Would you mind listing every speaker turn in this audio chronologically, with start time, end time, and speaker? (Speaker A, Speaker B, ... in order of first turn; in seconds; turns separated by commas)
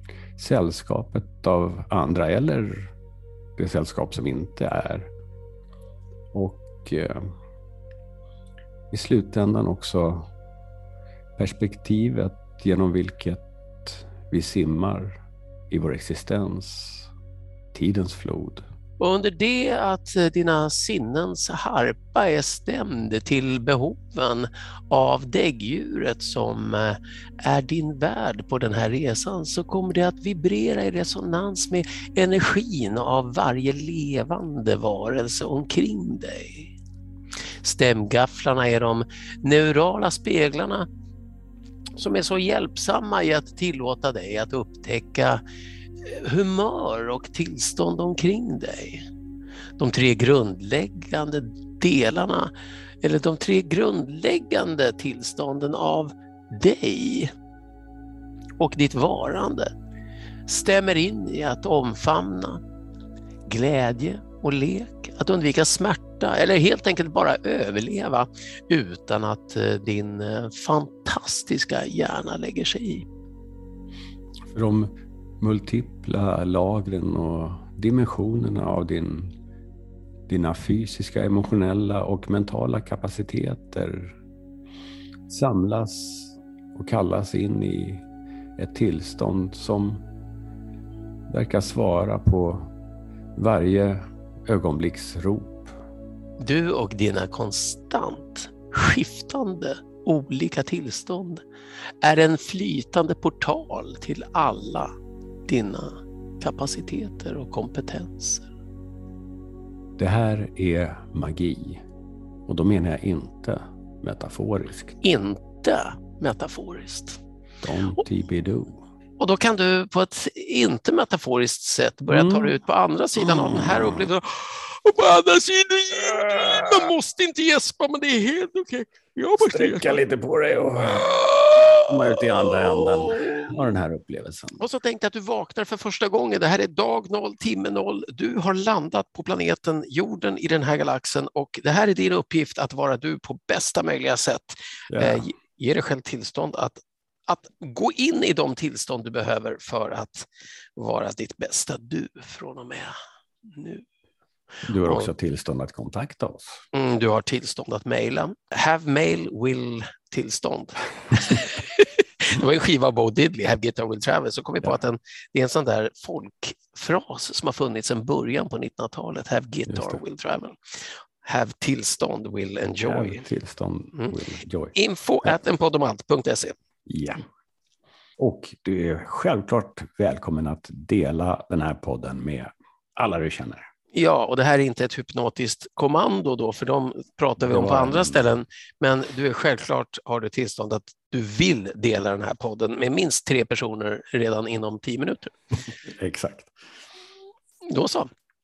Speaker A: 0.4-2.9, Speaker A: 3.6-5.1, Speaker A: 6.3-7.3, Speaker A: 8.9-10.3, Speaker A: 11.4-17.1, Speaker A: 17.7-18.6, Speaker B: 19.0-36.7, Speaker B: 37.6-40.9, Speaker B: 42.0-45.4, Speaker B: 46.0-49.0, Speaker B: 49.8-52.5, Speaker B: 53.0-57.3, Speaker B: 58.6-59.7, Speaker B: 60.5-62.6, Speaker B: 63.5-73.0, Speaker A: 74.5-74.9, Speaker A: 75.4-79.3, Speaker A: 80.3-84.2, Speaker A: 85.3-88.0, Speaker A: 88.6-90.0, Speaker A: 91.3-92.7, Speaker A: 93.3-95.7, Speaker B: 96.4-101.4, Speaker B: 102.0-104.9, Speaker B: 105.5-108.5, Speaker A: 110.0-111.8, Speaker A: 112.5-115.0, Speaker B: 115.0-117.2, Speaker A: 117.6-118.8, Speaker B: 119.2-130.0, Speaker A: 122.1-122.6, Speaker A: 123.2-124.1, Speaker A: 126.2-126.7, Speaker A: 129.4-131.2, Speaker A: 131.8-134.6, Speaker B: 132.5-133.4, Speaker B: 134.6-152.9, Speaker A: 144.9-145.2, Speaker B: 153.5-153.8, Speaker A: 154.7-156.6, Speaker B: 154.8-155.1, Speaker B: 156.7-170.6, Speaker A: 169.7-170.0, Speaker B: 171.2-173.2, Speaker A: 172.8-175.4, Speaker B: 174.7-176.5, Speaker A: 176.9-177.2, Speaker A: 178.2-183.6, Speaker B: 183.9-195.3, Speaker A: 187.4-188.3, Speaker A: 195.9-196.5, Speaker B: 197.7-198.1